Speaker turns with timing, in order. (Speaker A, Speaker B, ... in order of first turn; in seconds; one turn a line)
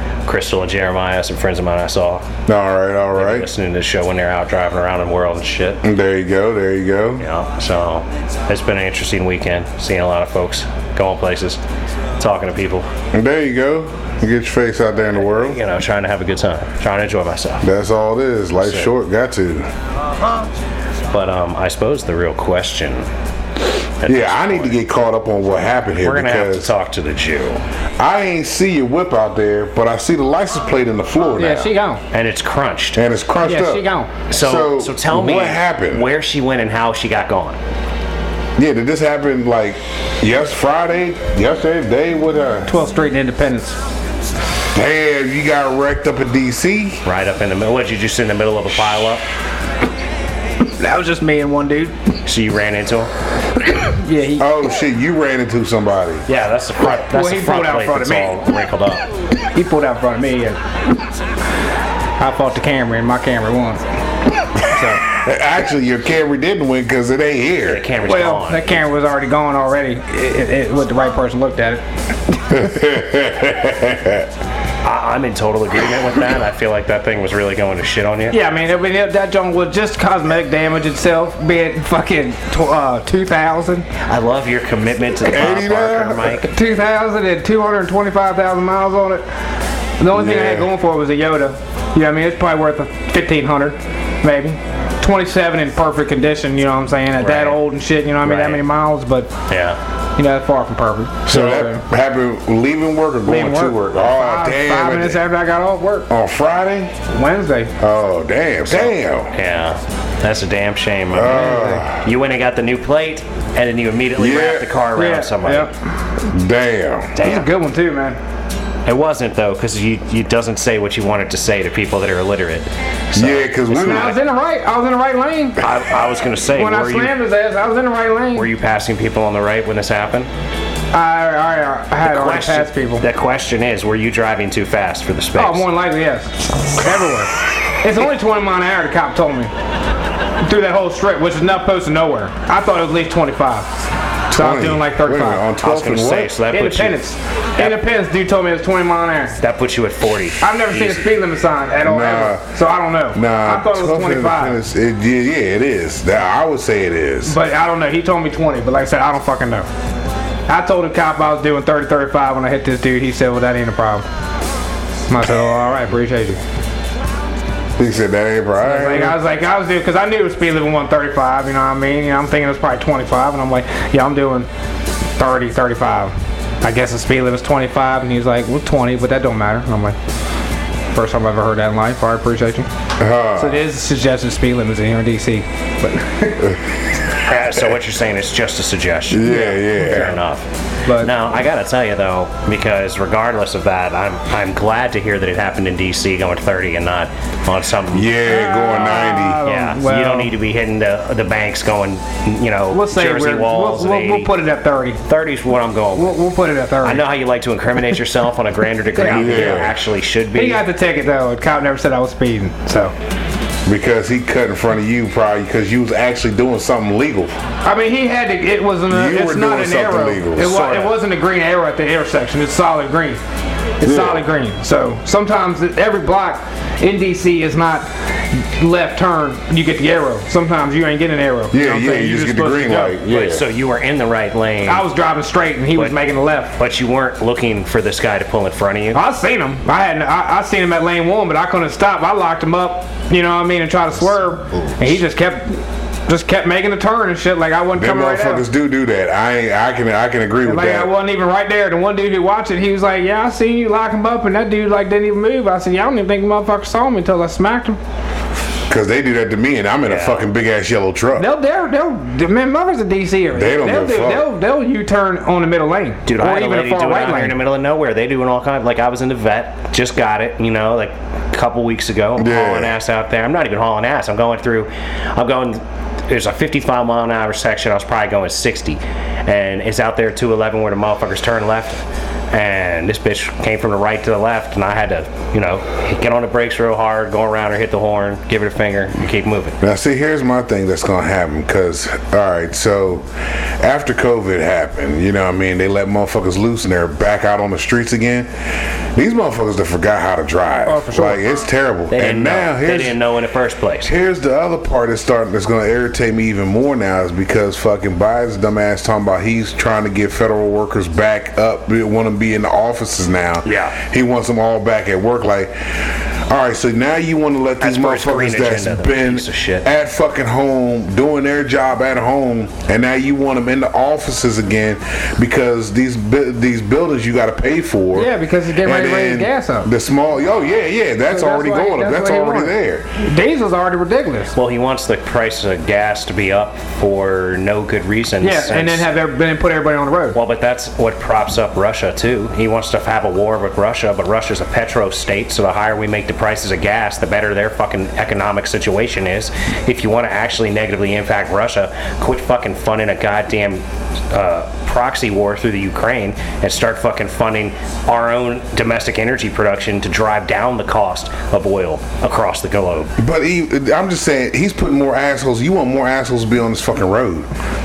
Speaker A: 0.3-2.3
Speaker B: 2.5-3.5
Speaker A: 3.1-5.8
Speaker B: 5.8-7.2
Speaker A: 7.2-11.6
Speaker A: 12.2-12.9
Speaker B: 13.1-15.6
Speaker A: 15.1-17.7
Speaker B: 17.6-19.7
Speaker A: 18.6-18.9
Speaker A: 21.1-23.1
Speaker A: 24.0-24.8
Speaker B: 24.1-26.7
Speaker A: 26.0-27.6
Speaker B: 28.0-31.7
Speaker C: 31.4-32.0
Speaker A: 32.1-33.0
Speaker B: 33.0-36.1
Speaker C: 33.4-34.1
Speaker A: 34.3-37.6
Speaker B: 38.6-42.7
Speaker C: 42.7-43.8
Speaker B: 44.7-47.0
Speaker A: 47.0-49.2
Speaker C: 50.8-52.0
Speaker A: 52.3-53.1
Speaker C: 53.9-54.6
Speaker B: 54.4-56.2
Speaker A: 56.3-59.0
Speaker C: 56.9-58.5
Speaker C: 59.5-60.6
Speaker C: 62.2-63.8
Speaker C: 64.7-65.0
Speaker B: 65.1-67.9
Speaker A: 67.7-68.7
Speaker C: 68.1-71.8
Speaker B: 72.5-74.3
Speaker A: 74.8-78.4
Speaker C: 78.3-83.9
Speaker A: 84.0-86.5
Speaker B: 85.2-86.4
Speaker C: 86.4-89.2
Speaker C: 90.0-99.3
Speaker B: 90.1-90.7
Speaker A: 97.2-97.6
Speaker A: 98.2-98.6
Speaker A: 99.5-99.8
Speaker C: 100.2-101.8
Speaker B: 101.3-105.2
Speaker C: 103.3-106.1
Speaker B: 106.1-107.0
Speaker C: 107.1-107.7
Speaker B: 107.8-109.3
Speaker A: 108.7-115.7
Speaker B: 111.1-112.1
Speaker C: 111.2-111.8
Speaker B: 114.2-114.7
Speaker C: 115.0-115.7
Speaker B: 116.3-117.2
Speaker A: 117.2-117.5
Speaker C: 117.2-118.2
Speaker A: 118.9-124.2
Speaker B: 123.2-124.2
Speaker C: 123.7-125.6
Speaker A: 125.6-127.1
Speaker C: 126.5-128.5
Speaker A: 128.3-130.3
Speaker C: 130.9-133.1
Speaker A: 132.0-135.7
Speaker C: 135.4-139.5
Speaker C: 140.4-143.7
Speaker B: 144.3-146.4
Speaker C: 144.3-145.5
Speaker A: 145.6-147.0
Speaker C: 146.5-149.4
Speaker A: 149.4-151.1
Speaker C: 150.4-154.6
Speaker B: 151.8-152.5
Speaker B: 153.1-157.4
Speaker C: 157.3-159.7
Speaker C: 160.5-164.1
Speaker C: 165.1-166.4
Speaker B: 167.8-169.2
Speaker C: 168.6-174.5
Speaker C: 175.2-180.0
Speaker C: 180.9-182.7
Speaker B: 183.0-183.6
Speaker C: 183.4-186.5
Speaker A: 187.3-198.1
Speaker B: 189.1-190.1
Speaker C: 189.2-190.1
Speaker C: 190.9-191.1
Speaker B: 197.9-199.4
Speaker C: 198.2-200.3
Speaker A: 199.4-204.3
Speaker C: 202.7-205.0
Speaker A: 205.1-206.2
Speaker C: 206.0-207.1
Speaker A: 206.8-210.6
Speaker C: 209.0-209.6
Speaker B: 209.1-209.8
Speaker C: 210.3-212.9
Speaker B: 213.7-217.4
Speaker C: 217.6-223.2
Speaker B: 218.9-221.0
Speaker C: 223.8-233.0
Speaker B: 223.8-224.2
Speaker B: 231.5-233.5
Speaker A: 233.1-234.8
Speaker C: 234.7-236.6
Speaker A: 236.6-239.0
Speaker C: 238.9-248.5
Speaker B: 247.8-250.9
Speaker C: 250.4-257.8
Speaker B: 258.7-261.3
Speaker A: 259.9-260.3
Speaker C: 261.2-267.4
Speaker B: 263.3-264.3
Speaker A: 266.1-289.6
Speaker B: 272.2-272.8
Speaker B: 289.6-293.1
Speaker B: 293.6-298.3
Speaker B: 298.9-303.0
Speaker C: 300.7-301.2
Speaker A: 301.9-303.9
Speaker B: 303.9-328.1
Speaker A: 313.4-313.8
Speaker A: 317.6-319.7
Speaker C: 327.9-329.7
Speaker B: 328.6-332.9
Speaker C: 331.1-334.4
Speaker A: 334.4-338.9
Speaker C: 338.2-340.2
Speaker A: 340.1-362.9
Speaker B: 363.0-367.3